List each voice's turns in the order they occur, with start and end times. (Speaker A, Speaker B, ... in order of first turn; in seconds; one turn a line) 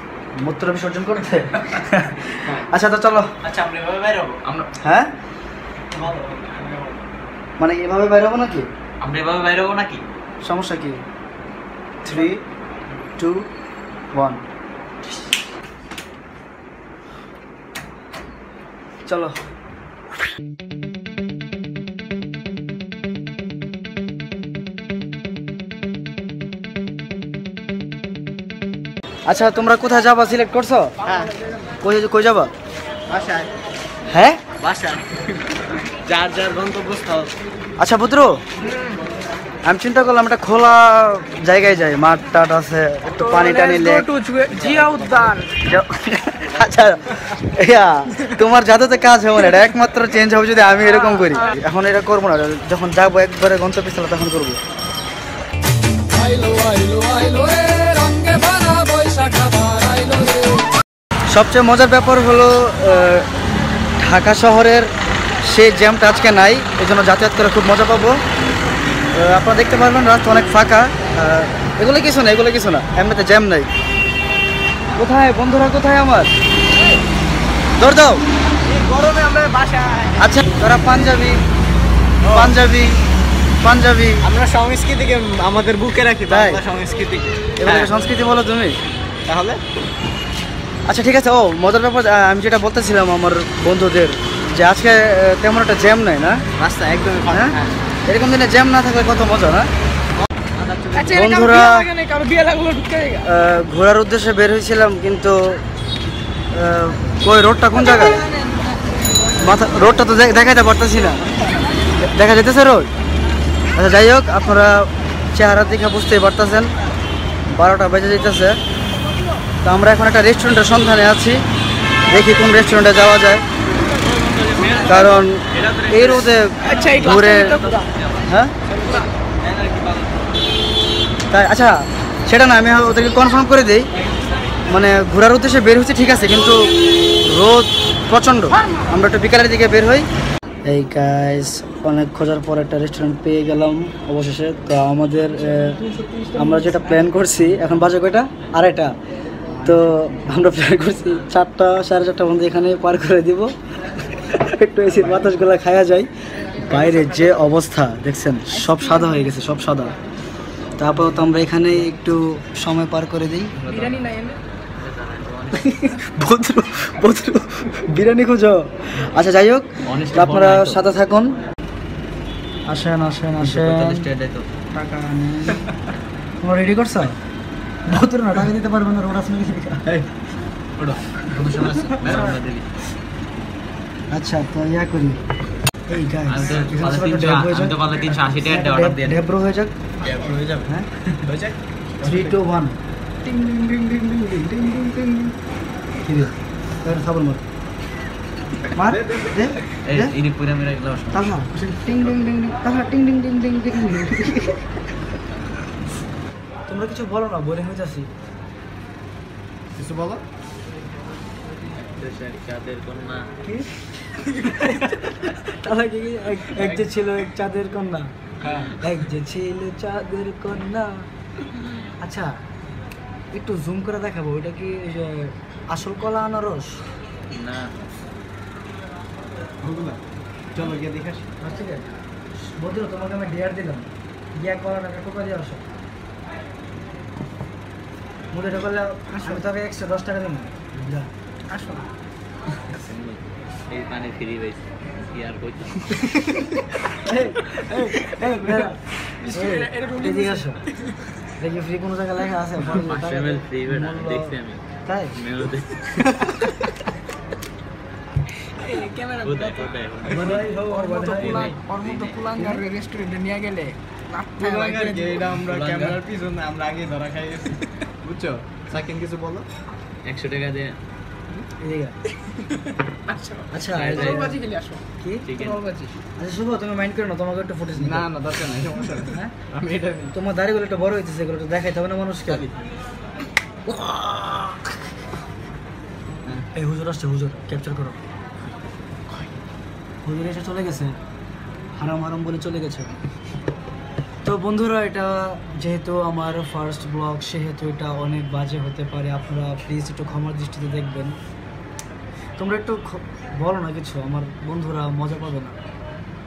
Speaker A: 0.4-3.3
Speaker B: 3.4-4.7
Speaker A: 4.8-5.1
Speaker C: 5.9-6.9
Speaker A: 7.6-8.7
Speaker B: 9.0-10.0
Speaker A: 10.4-11.0
Speaker A: 12.0-12.4
Speaker A: 13.2-13.4
Speaker A: 14.1-14.4
Speaker A: 19.1-19.3
Speaker A: 29.3-30.9
Speaker C: 31.0-31.3
Speaker D: 31.1-31.6
Speaker A: 31.8-32.5
Speaker C: 33.1-33.5
Speaker A: 34.1-34.4
Speaker C: 34.6-35.4
Speaker C: 36.1-37.3
Speaker A: 37.8-38.4
Speaker D: 38.6-39.0
Speaker A: 39.6-44.1
Speaker D: 43.1-45.6
Speaker B: 44.5-45.3
Speaker A: 45.6-54.6
Speaker D: 50.8-51.6
Speaker E: 56.1-60.6
Speaker A: 61.3-63.3
Speaker A: 64.0-64.9
Speaker A: 65.4-68.2
Speaker A: 69.1-73.7
Speaker A: 75.0-76.3
Speaker A: 77.8-78.2
Speaker C: 78.6-80.3
Speaker A: 80.2-81.4
Speaker C: 82.2-82.5
Speaker A: 82.2-83.0
Speaker A: 83.6-84.2
Speaker C: 84.2-87.9
Speaker A: 86.3-86.6
Speaker A: 87.6-88.8
Speaker C: 89.3-89.6
Speaker A: 90.9-96.4
Speaker C: 96.6-97.8
Speaker A: 97.3-99.7
Speaker B: 100.6-101.1
Speaker D: 100.9-103.3
Speaker A: 101.1-101.9
Speaker A: 103.2-105.6
Speaker A: 106.5-108.2
Speaker A: 109.4-111.2
Speaker A: 112.0-112.9
Speaker A: 113.8-116.7
Speaker A: 117.5-118.6
Speaker A: 119.6-121.4
Speaker A: 122.1-123.4
Speaker B: 124.0-130.3
Speaker A: 124.8-127.6
Speaker D: 126.6-127.9
Speaker A: 128.2-128.5
Speaker D: 128.7-129.1
Speaker A: 131.3-133.9
Speaker B: 133.9-134.6
Speaker A: 134.7-136.7
Speaker A: 137.2-140.1
Speaker D: 138.5-139.0
Speaker A: 140.7-145.8
Speaker D: 145.3-147.7
Speaker A: 146.3-148.9
Speaker D: 149.6-149.9
Speaker A: 149.6-153.5
Speaker A: 154.2-156.1
Speaker A: 156.6-159.9
Speaker D: 156.8-157.4
Speaker D: 158.5-159.3
Speaker A: 160.8-163.5
Speaker B: 161.3-161.9
Speaker B: 163.6-164.0
Speaker D: 163.7-164.4
Speaker B: 164.8-166.0
Speaker A: 165.6-171.3
Speaker B: 169.8-170.8
Speaker A: 172.7-174.1
Speaker B: 173.4-174.4
Speaker A: 174.7-175.6
Speaker A: 176.4-177.2
Speaker A: 177.8-179.9
Speaker B: 180.8-182.7
Speaker A: 181.3-182.4
Speaker C: 181.6-182.2
Speaker A: 184.1-185.2
Speaker A: 185.9-189.7
Speaker B: 186.3-189.2
Speaker C: 190.0-190.7
Speaker B: 190.1-190.3
Speaker A: 190.7-191.2
Speaker C: 191.2-192.4
Speaker A: 192.0-195.3
Speaker A: 196.0-197.4
Speaker A: 198.7-200.1
Speaker C: 198.8-199.6
Speaker B: 199.8-201.3
Speaker A: 201.1-204.6
Speaker A: 206.7-208.1
Speaker C: 209.8-210.2
Speaker B: 211.7-213.3
Speaker A: 214.4-218.1
Speaker B: 218.4-218.8
Speaker A: 218.8-221.0
Speaker A: 222.0-222.3
Speaker A: 223.3-226.8
Speaker B: 227.3-227.7
Speaker C: 229.6-230.0
Speaker C: 230.5-231.3
Speaker A: 231.4-235.6
Speaker A: 238.3-241.1
Speaker D: 239.1-239.4
Speaker D: 241.5-241.9
Speaker B: 242.6-246.1
Speaker A: 247.0-250.6
Speaker D: 249.2-251.0
Speaker A: 251.4-254.3
Speaker B: 252.6-254.6
Speaker A: 254.8-255.2
Speaker B: 255.2-256.1
Speaker D: 258.6-265.2
Speaker B: 259.2-260.5
Speaker A: 260.1-261.6
Speaker B: 261.2-262.1
Speaker A: 262.4-262.6
Speaker C: 264.4-269.4
Speaker B: 265.3-266.0
Speaker B: 270.1-270.8
Speaker A: 271.6-271.9
Speaker D: 273.1-274.8
Speaker A: 273.5-274.3
Speaker B: 273.7-274.4
Speaker A: 275.0-275.3
Speaker B: 275.2-275.6
Speaker D: 275.3-275.9
Speaker A: 276.2-278.1
Speaker C: 277.8-280.1
Speaker A: 279.1-279.3
Speaker A: 280.1-282.4
Speaker B: 282.3-282.6
Speaker A: 286.5-288.0
Speaker A: 290.0-291.0
Speaker A: 291.8-292.9
Speaker A: 294.2-301.1
Speaker A: 302.4-305.6